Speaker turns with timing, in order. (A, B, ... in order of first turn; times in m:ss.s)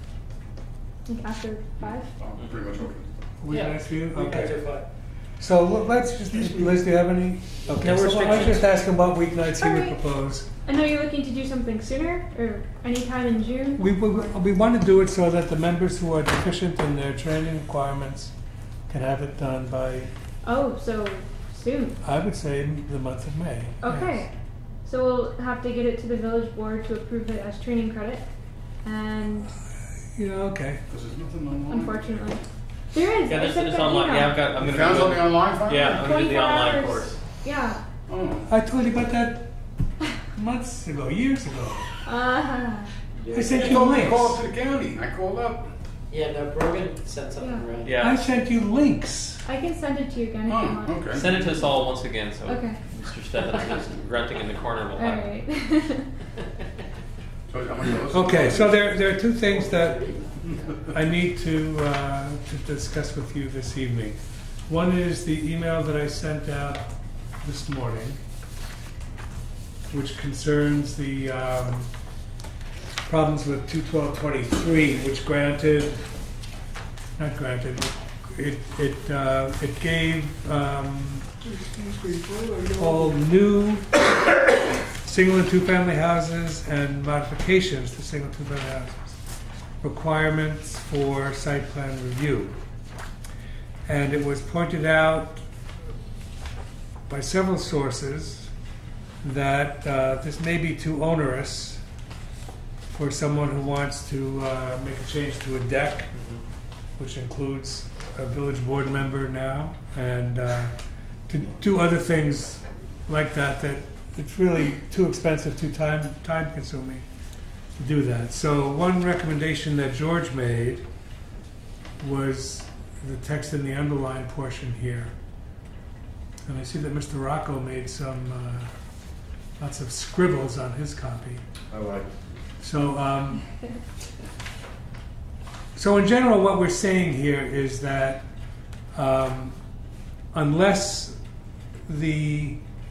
0:01.1-0:02.1 A
0:01.8-0:03.1 B
0:02.4-0:02.6 C
0:03.4-0:04.6 D
0:03.5-0:04.9 E
0:05.4-0:10.5 D
0:06.4-0:06.7 E
0:07.8-0:08.6 C
0:09.6-0:10.0 A
0:10.6-0:14.4 A
0:13.8-0:18.3 D
0:18.9-0:20.1 D
0:20.4-0:22.0 A
0:22.0-0:24.2 D
0:23.8-0:24.3 A
0:24.8-0:28.2 A
0:28.8-0:29.6 A
0:30.1-0:30.8 D
0:30.9-0:32.1 B
0:31.7-0:34.4 A
0:33.3-0:37.2 C
0:34.6-0:36.1 B
0:35.8-0:37.8 A
0:38.1-0:38.5 B
0:38.5-0:39.5 D
0:40.2-0:41.9 D
0:42.0-0:42.9 A
0:43.3-0:43.5 E
0:43.3-0:45.7 B
0:43.3-0:44.4 D
0:46.1-0:48.0 E
0:47.4-0:47.7 A
0:47.8-0:48.2 C
0:48.0-0:49.4 D
0:49.4-0:51.4 A
0:50.4-0:51.3 B
0:51.1-0:55.4 C
0:52.5-0:52.8 A
0:55.0-0:56.1 A
0:57.5-0:58.8 B
0:58.1-1:00.1 D
0:58.9-1:00.9 E
1:00.9-1:08.2 D
1:09.9-1:11.9 D
1:13.1-1:16.0 D
1:17.2-1:21.3 D
1:21.4-1:23.1 B
1:22.8-1:24.0 D
1:25.0-1:29.2 D
1:29.8-1:32.6 D
1:33.9-1:35.4 D
1:37.1-1:38.5 D
1:39.2-1:41.8 D
1:42.9-1:46.1 D
1:46.1-1:46.4 C
1:47.0-1:50.8 D
1:51.3-1:57.0 D
1:57.8-2:00.9 D
2:02.0-2:05.1 D
2:06.5-2:08.7 D
2:09.6-2:11.4 D
2:11.7-2:12.1 B
2:12.6-2:13.5 D
2:15.8-2:18.3 D
2:18.9-2:19.6 D
2:20.3-2:21.2 D
2:21.9-2:22.6 D